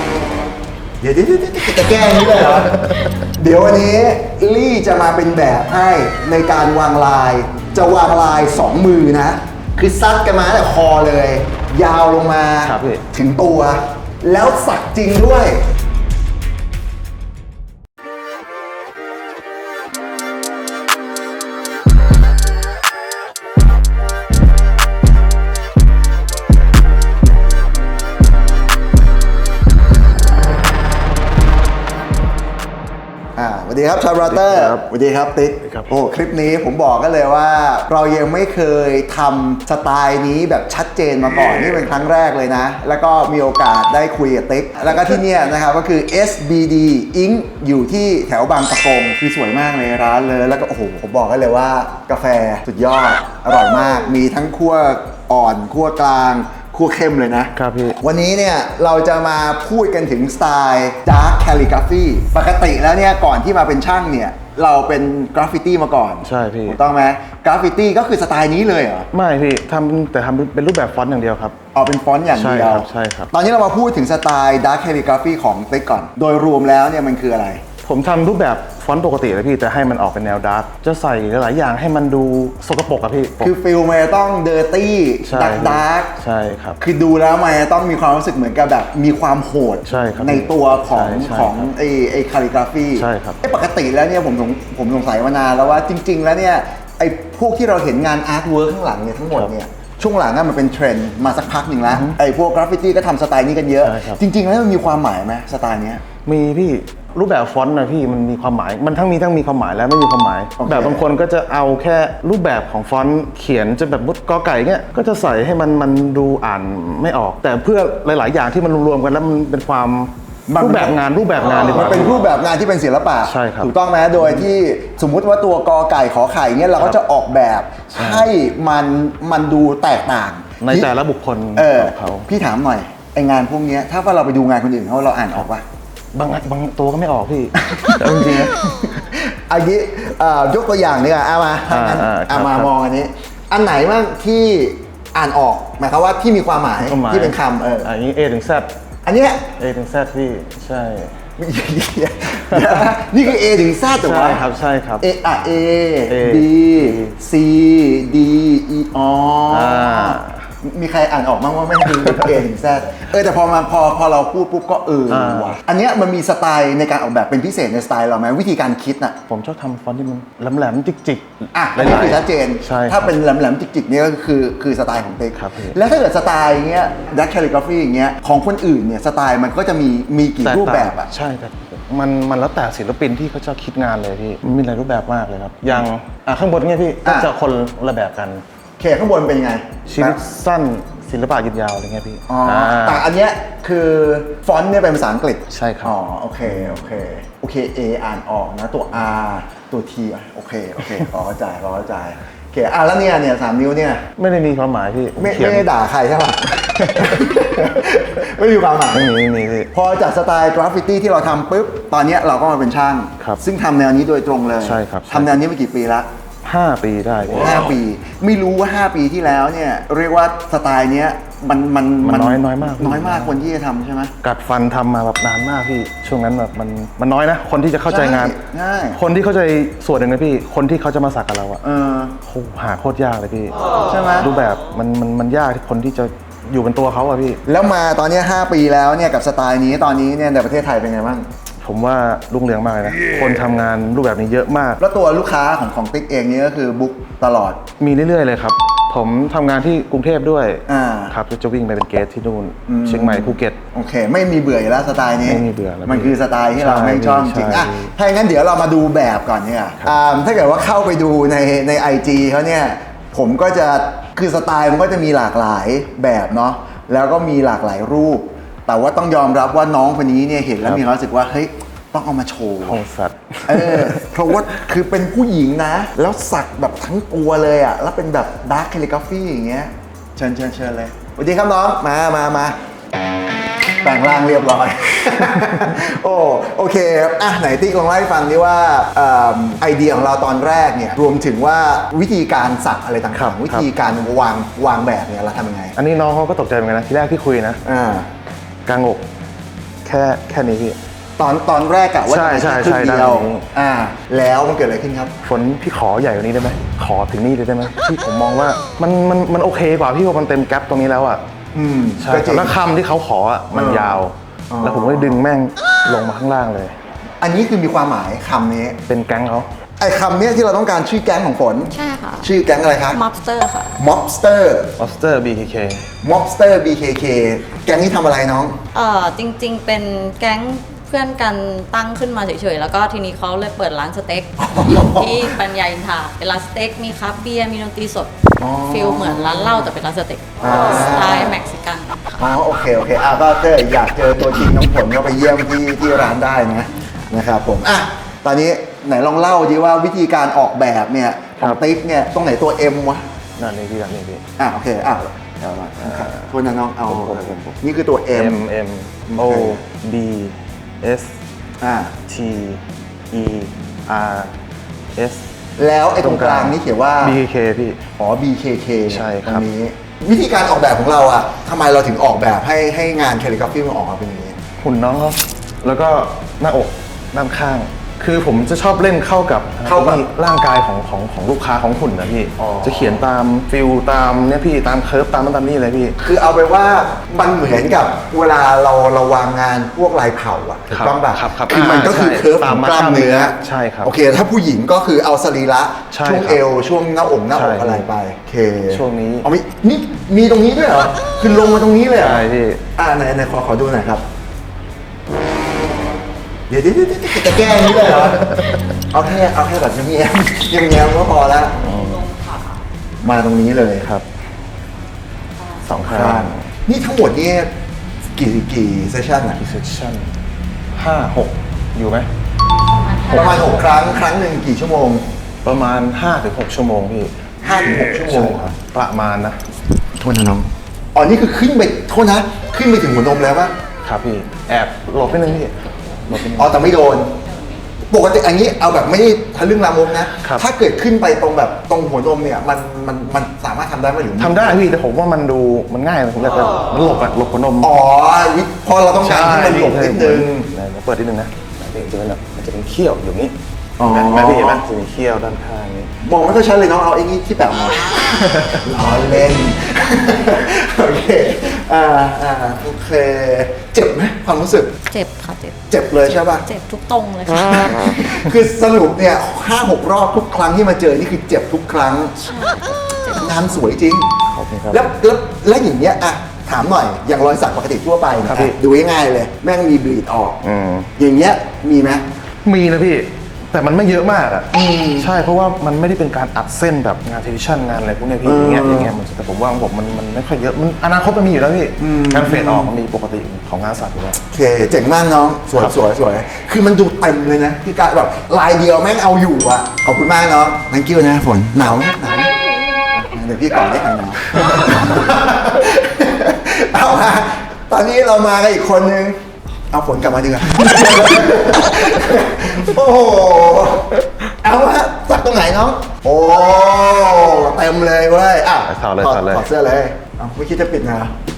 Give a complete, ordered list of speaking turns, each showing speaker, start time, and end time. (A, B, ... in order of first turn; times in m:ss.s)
0:01.0-0:15.6 A
0:02.7-0:03.0 B
0:12.6-0:13.0 B
0:33.4-1:09.1 A
0:34.2-0:34.9 B
0:35.6-0:35.9 B
0:57.6-0:58.0 B
1:06.2-1:06.8 B
1:09.1-1:11.6 B
1:11.7-1:17.6 A
1:12.4-1:13.3 B
1:17.8-1:23.5 B
1:23.4-1:26.1 A
1:25.3-1:26.8 B
1:26.8-1:46.0 A
1:29.8-1:31.7 B
1:33.0-1:33.4 B
1:41.9-1:42.2 B
1:43.8-1:44.2 B
1:46.2-2:02.2 B
1:50.6-1:51.0 A
2:00.5-2:01.0 A
2:01.6-2:10.9 A
2:03.2-2:04.5 B
2:07.9-2:08.3 B
2:10.6-2:12.3 B
2:11.6-2:15.6 A
2:16.1-2:18.5 B
2:17.6-2:27.9 A
2:21.7-2:22.7 B
2:26.8-2:28.7 B
2:29.0-2:29.5 A
2:29.6-2:31.2 B
2:31.4-2:34.4 A
2:32.5-2:33.0 B
2:34.0-2:35.0 B
2:35.0-2:49.2 A
2:36.1-2:37.1 B
2:39.5-2:40.4 B
2:45.1-2:45.6 B
2:49.3-2:53.2 B
2:51.5-3:01.1 A
2:55.3-2:55.8 B
3:00.4-3:08.4 B
3:07.0-3:07.3 A
3:08.8-3:10.2 A
3:09.8-3:13.0 B
3:12.3-3:24.0 A
3:15.5-3:15.9 B
3:24.2-3:25.7 B
3:25.2-3:29.1 A
3:26.6-3:27.5 B
3:28.9-3:29.7 B
3:29.7-3:36.1 A
3:34.6-3:35.3 B
3:36.4-3:37.7 B
3:37.4-3:44.1 A
3:42.0-3:43.4 B
3:44.2-3:48.4 B
3:47.8-3:49.0 A
3:48.9-3:51.6 B
3:51.6-3:52.2 A
3:52.2-3:53.6 B
3:53.9-3:54.3 A
3:54.2-3:57.4 B
3:57.4-4:01.3 A
4:01.6-4:04.8 B
4:04.8-4:07.6 A
4:07.8-4:13.6 B
4:10.7-4:11.2 A
4:12.7-4:32.8 A
4:15.2-4:17.9 B
4:32.6-4:34.3 B
4:33.5-4:42.6 A
4:43.8-4:55.7 A
4:53.1-4:53.7 B
4:55.8-4:57.6 B
4:57.6-4:58.1 A
4:58.6-4:59.0 B
4:59.8-5:00.8 B
5:01.2-5:05.1 A
5:02.1-5:03.4 B
5:05.2-5:11.2 B
5:11.5-5:12.5 A
5:12.0-5:16.7 B
5:13.5-5:15.2 A
5:17.2-5:18.8 A
5:18.9-5:19.5 B
5:19.8-5:23.0 A
5:21.7-5:22.3 C
5:22.9-5:23.8 C
5:23.8-5:24.8 A
5:24.8-5:25.9 B
5:26.0-5:28.6 A
5:28.7-5:38.1 C
5:34.4-5:35.4 A
5:38.4-5:39.7 A
5:38.7-5:42.0 C
5:40.4-5:41.4 A
5:42.2-5:53.0 A
5:53.4-5:54.2 B
5:54.4-5:58.4 A
5:55.8-5:56.3 B
5:56.9-5:57.6 B
5:58.1-6:01.2 B
5:59.1-5:59.6 A
6:01.6-6:01.9 A
6:02.1-6:04.3 B
6:04.9-6:05.3 B
6:05.6-6:07.2 A
6:06.0-6:07.8 B
6:07.9-6:14.4 A
6:08.9-6:09.4 B
6:14.6-6:26.0 B
6:19.6-6:20.0 A
6:22.4-6:23.0 A
6:26.0-6:42.2 A
6:30.7-6:33.9 B
6:35.9-6:36.4 B
6:37.3-6:37.9 B
6:38.7-6:39.3 B
6:42.0-6:42.6 B
6:42.8-6:44.0 A
6:46.5-6:51.5 A
6:51.6-6:52.6 C
6:51.6-6:52.1 B
6:53.0-6:53.9 A
6:53.8-6:54.0 B
6:55.4-6:55.7 C
6:55.6-6:56.4 B
6:55.8-6:57.5 A
6:58.2-6:59.4 A
6:59.4-7:00.1 B
7:00.7-7:02.1 B
7:02.6-7:03.8 C
7:03.1-7:05.0 A
7:05.4-7:07.1 B
7:07.4-7:08.6 A
7:07.8-7:09.4 B
7:10.0-7:13.5 A
7:13.8-7:16.7 B
7:16.3-7:17.1 A
7:17.9-7:24.5 A
7:24.2-7:27.7 B
7:27.6-7:30.5 A
7:29.0-7:35.9 B
7:33.8-7:34.6 A
7:36.0-7:44.7 A
7:38.2-7:38.6 B
7:44.9-7:47.8 C
7:45.7-7:46.5 A
7:47.5-7:52.3 A
7:52.3-7:53.5 C
7:53.1-7:54.1 A
7:54.3-7:54.9 B
7:54.7-8:00.4 A
7:58.2-7:58.6 B
8:00.4-8:00.9 B
8:01.0-8:02.0 A
8:02.4-8:14.2 B
8:04.5-8:05.1 A
8:08.2-8:08.9 A
8:11.8-8:12.7 A
8:14.2-8:22.3 A
8:22.9-8:29.2 A
8:29.7-8:41.1 A
8:38.7-8:39.4 B